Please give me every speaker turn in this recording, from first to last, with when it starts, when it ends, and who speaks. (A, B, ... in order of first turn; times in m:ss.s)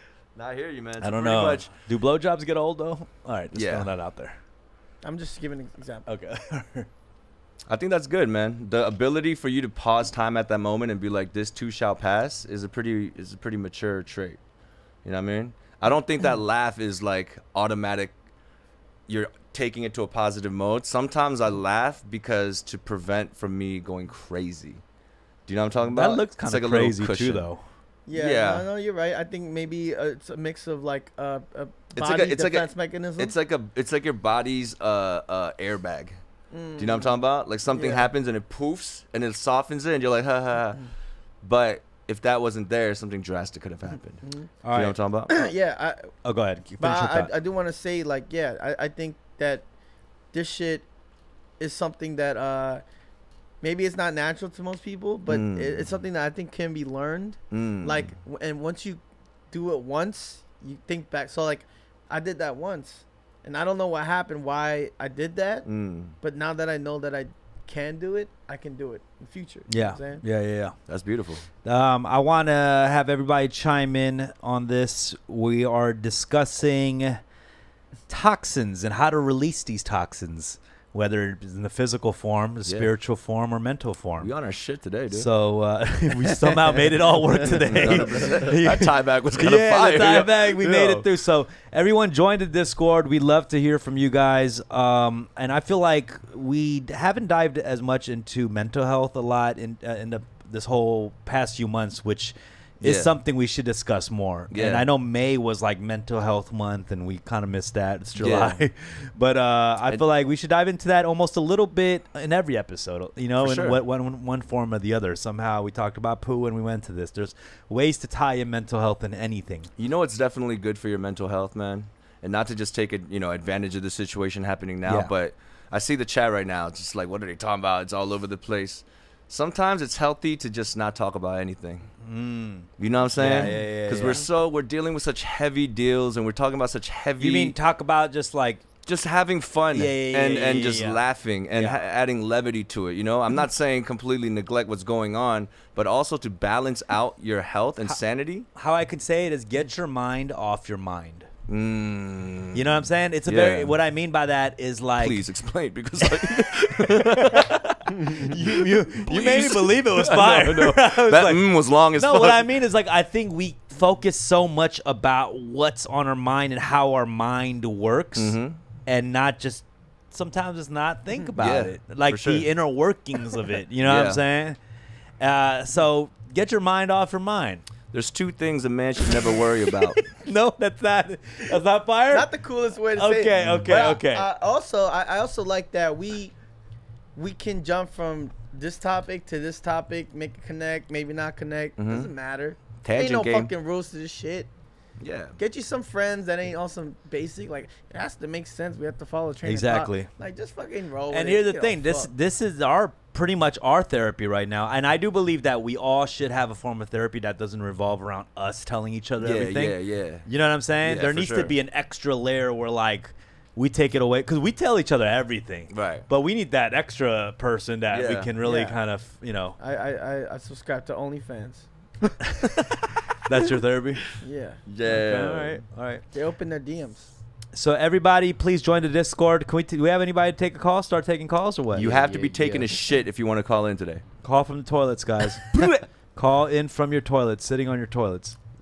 0:00.4-0:01.7 A
0:01.0-0:04.4 B
0:03.5-0:03.9 A
0:05.0-0:06.1 C
0:06.1-0:06.9 B
0:07.7-0:14.4 A
0:15.0-0:18.2 A
0:19.1-0:24.8 A
0:25.5-0:27.5 A
0:25.9-0:27.6 B
0:28.1-0:33.4 C
0:28.1-0:28.7 A
0:32.0-0:36.2 A
0:36.5-0:38.1 C
0:36.8-0:40.8 A
0:41.4-0:45.4 A
0:44.2-0:44.5 C
0:44.6-0:45.0 B
0:45.3-0:46.1 C
0:46.2-0:47.3 B
0:46.8-0:49.7 C
0:50.3-0:50.9 C
0:51.6-0:52.8 C
0:53.6-1:05.7 C
0:55.3-0:55.9 A
0:57.5-0:58.1 A
1:05.6-1:06.2 A
1:06.2-1:10.2 C
1:09.7-1:10.8 B
1:10.9-1:11.5 A
1:11.6-1:17.2 B
1:18.1-1:24.3 B
1:22.6-1:22.9 A
1:24.2-1:25.3 A
1:25.1-1:59.7 B
1:27.7-1:31.1 A
1:42.8-1:43.1 A
1:44.5-1:44.9 A
1:48.2-1:48.6 A
1:53.4-1:53.8 A
1:59.8-2:11.9 A
2:04.8-2:05.1 B
2:12.0-2:14.3 B
2:12.8-2:17.6 A
2:17.2-2:18.6 B
2:18.8-2:28.5 A
2:19.7-2:21.0 B
2:21.5-2:21.8 B
2:28.6-2:31.3 B
2:31.5-2:32.7 A
2:32.5-2:35.2 B
2:33.3-2:33.8 A
2:35.0-2:42.5 A
2:36.0-2:41.4 B
2:42.0-2:54.6 B
2:48.2-2:48.6 A
2:51.4-2:52.5 A
2:53.8-2:54.2 A
2:55.2-2:57.6 B
2:57.9-3:00.1 A
2:59.9-3:02.3 B
3:02.1-3:06.4 C
3:03.0-3:04.3 B
3:03.4-3:03.8 A
3:07.2-3:14.5 C
3:11.8-3:12.1 A
3:12.8-3:13.5 A
3:15.0-3:15.4 A
3:15.4-3:22.1 C
3:19.4-3:20.1 B
3:21.1-3:39.6 B
3:29.2-3:30.3 A
3:30.8-3:31.5 A
3:35.7-3:36.1 A
3:37.9-3:38.3 A
3:38.4-3:38.8 C
3:39.6-3:41.7 C
3:43.3-3:44.1 B
3:44.2-3:44.6 C
3:44.7-3:45.7 A
3:44.8-3:46.0 B
3:46.1-3:47.1 C
3:47.5-3:52.6 B
3:51.7-3:54.0 A
3:54.2-3:55.5 B
3:55.5-3:55.8 A
3:56.2-3:58.4 B